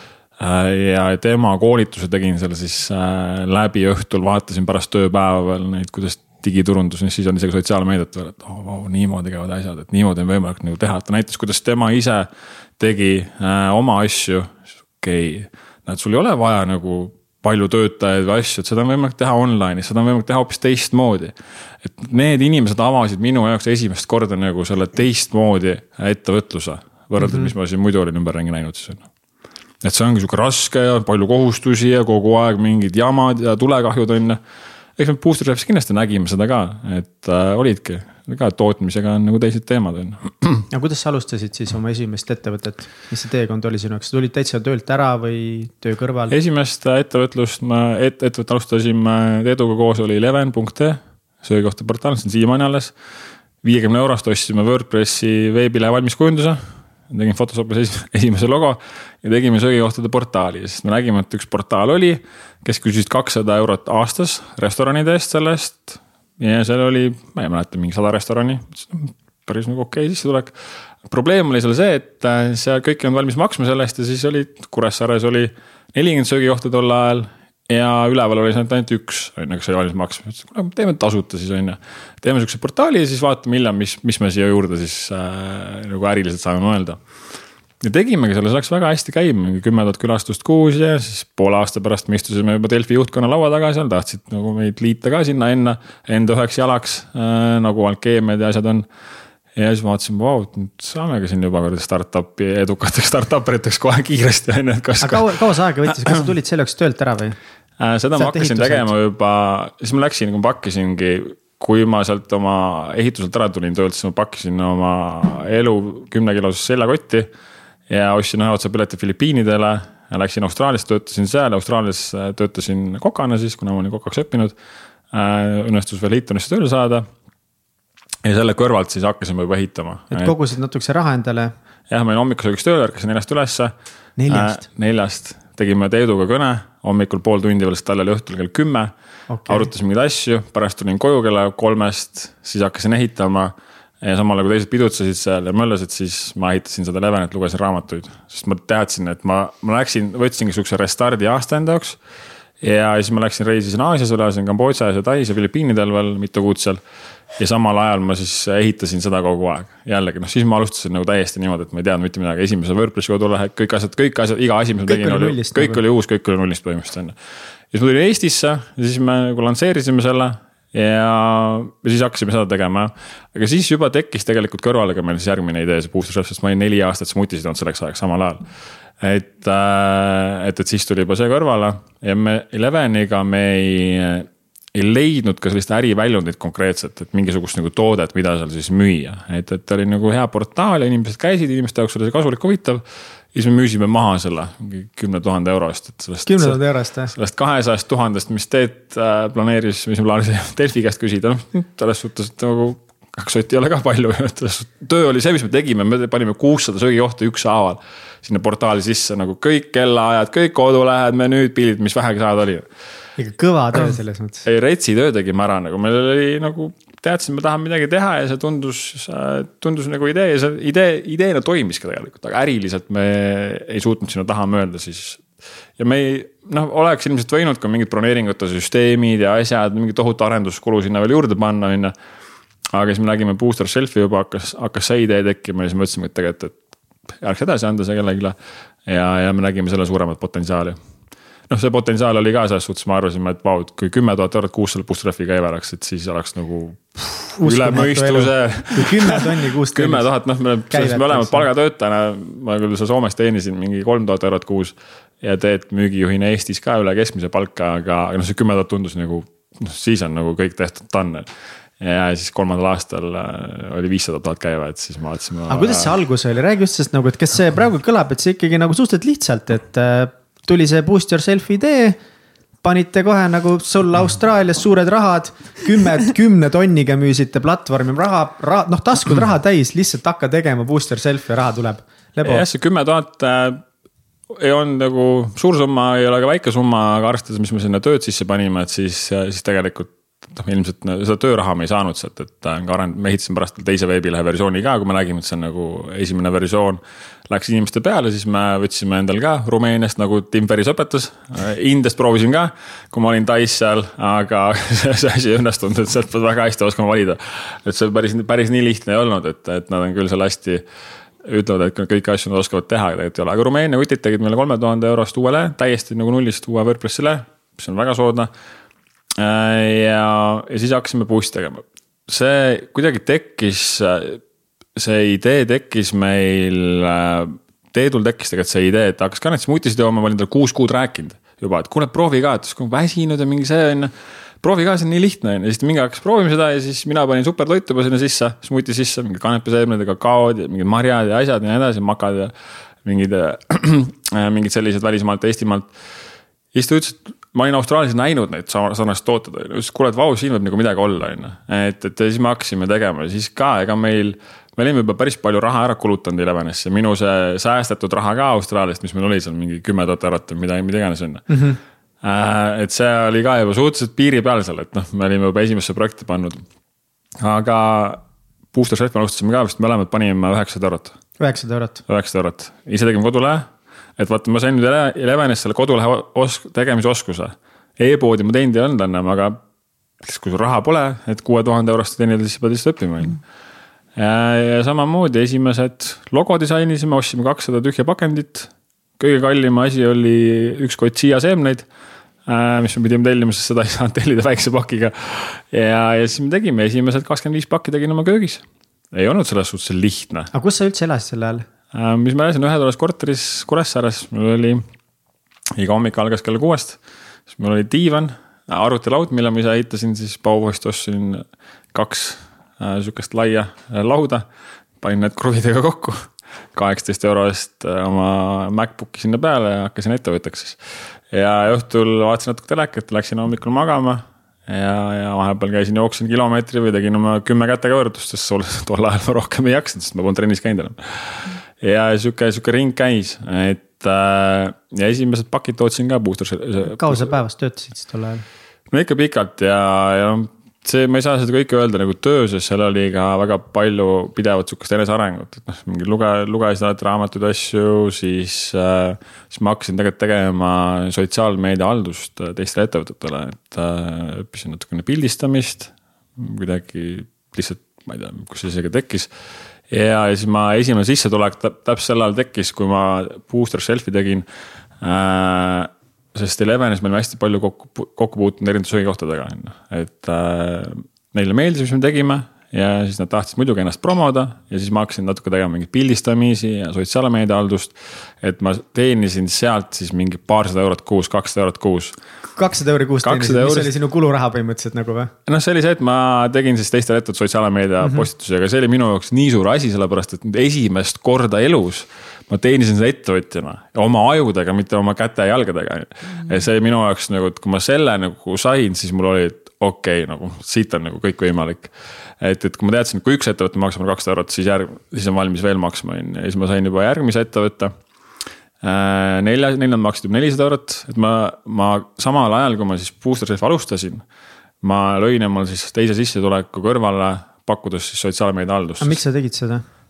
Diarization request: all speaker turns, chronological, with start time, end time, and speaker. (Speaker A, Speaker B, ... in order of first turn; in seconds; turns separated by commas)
Speaker A: 0.4-29.1, Speaker B: 27.2-27.5, Speaker A: 29.8-34.4, Speaker A: 35.0-40.7, Speaker B: 40.7-46.4, Speaker A: 46.3-52.9, Speaker A: 53.6-70.5, Speaker A: 71.1-87.0, Speaker A: 87.8-98.9, Speaker A: 99.6-105.5, Speaker B: 105.0-107.4, Speaker A: 107.8-117.3, Speaker B: 108.2-108.9, Speaker A: 117.9-124.6, Speaker A: 125.1-127.1, Speaker A: 128.2-130.3, Speaker B: 130.1-131.5, Speaker A: 131.9-133.7, Speaker B: 134.2-134.6, Speaker A: 134.3-138.9, Speaker B: 139.3-139.7, Speaker A: 139.5-152.0, Speaker A: 152.6-156.8, Speaker A: 157.4-167.2, Speaker B: 164.9-165.8, Speaker A: 167.7-178.4, Speaker A: 179.0-212.7, Speaker B: 196.2-197.1, Speaker B: 213.2-214.4, Speaker A: 214.4-225.2, Speaker A: 225.8-231.9, Speaker A: 232.7-236.6, Speaker A: 237.2-240.8, Speaker A: 241.5-261.2, Speaker B: 247.4-250.1, Speaker B: 250.7-251.5, Speaker A: 261.8-266.0, Speaker B: 265.5-272.0, Speaker B: 272.6-282.4, Speaker A: 282.2-283.6, Speaker A: 284.3-310.6, Speaker A: 311.2-318.3, Speaker A: 319.2-324.2, Speaker A: 324.8-342.3, Speaker A: 342.8-345.7, Speaker A: 346.5-361.2, Speaker B: 361.3-361.6, Speaker A: 362.0-366.4, Speaker A: 367.2-368.0, Speaker A: 368.5-371.0, Speaker B: 371.2-371.8, Speaker A: 371.9-379.4, Speaker A: 380.0-383.2, Speaker A: 384.0-391.7, Speaker A: 392.2-400.3, Speaker B: 400.3-401.4, Speaker A: 401.7-404.6, Speaker A: 405.6-406.8, Speaker A: 407.3-414.2, Speaker A: 414.8-420.6, Speaker A: 421.1-437.1, Speaker B: 436.6-438.2, Speaker A: 438.7-459.1, Speaker A: 459.7-464.2, Speaker A: 464.8-482.0, Speaker B: 482.4-485.1, Speaker A: 483.0-483.7, Speaker A: 485.2-507.7, Speaker A: 508.6-514.0, Speaker A: 514.6-519.0, Speaker B: 518.8-519.6